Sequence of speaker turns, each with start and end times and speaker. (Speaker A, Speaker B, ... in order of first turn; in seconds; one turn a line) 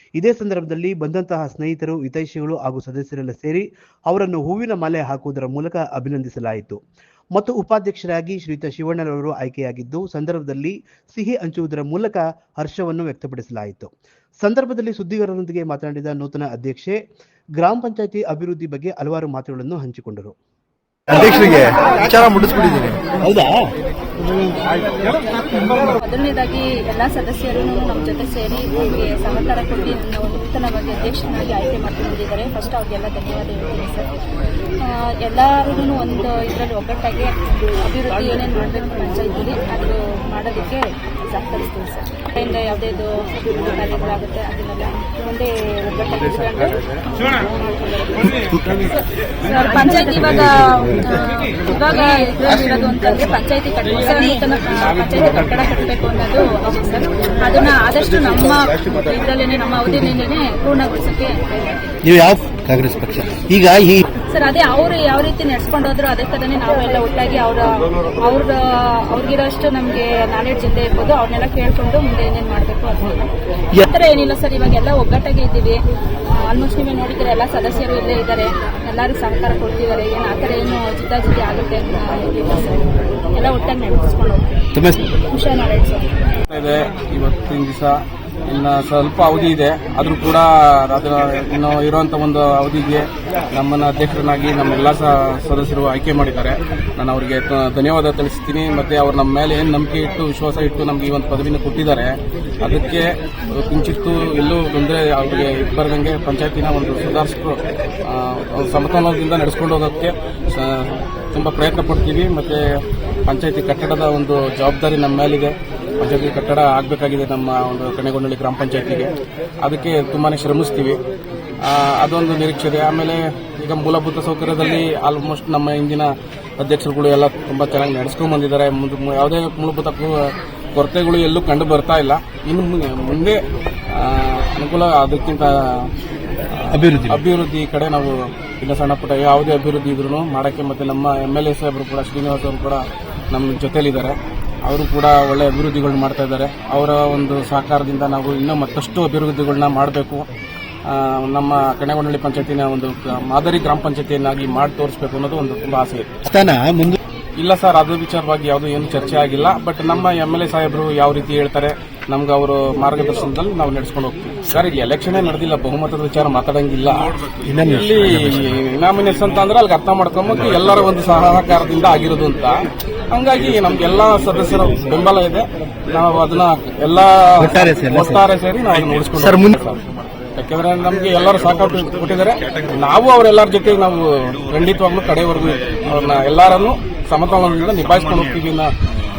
Speaker A: 0.2-6.8
Speaker A: 7.3-17.0
Speaker A: 17.6-20.4
Speaker B: 21.1-23.7
Speaker C: 25.8-34.1
Speaker C: 34.8-48.7
Speaker C: 49.4-61.4
Speaker B: 50.6-50.9
Speaker B: 62.0-64.0
Speaker C: 64.2-75.8
Speaker C: 76.3-86.2
Speaker D: 86.5-112.6
Speaker D: 113.3-121.0
Speaker D: 121.6-133.4
Speaker D: 133.9-135.9
Speaker D: 136.5-150.2
Speaker B: 136.7-137.2
Speaker D: 150.9-156.1
Speaker B: 156.2-157.0
Speaker D: 157.4-179.8
Speaker B: 167.5-168.5
Speaker B: 177.4-178.3
Speaker B: 179.2-179.6
Speaker D: 180.4-188.7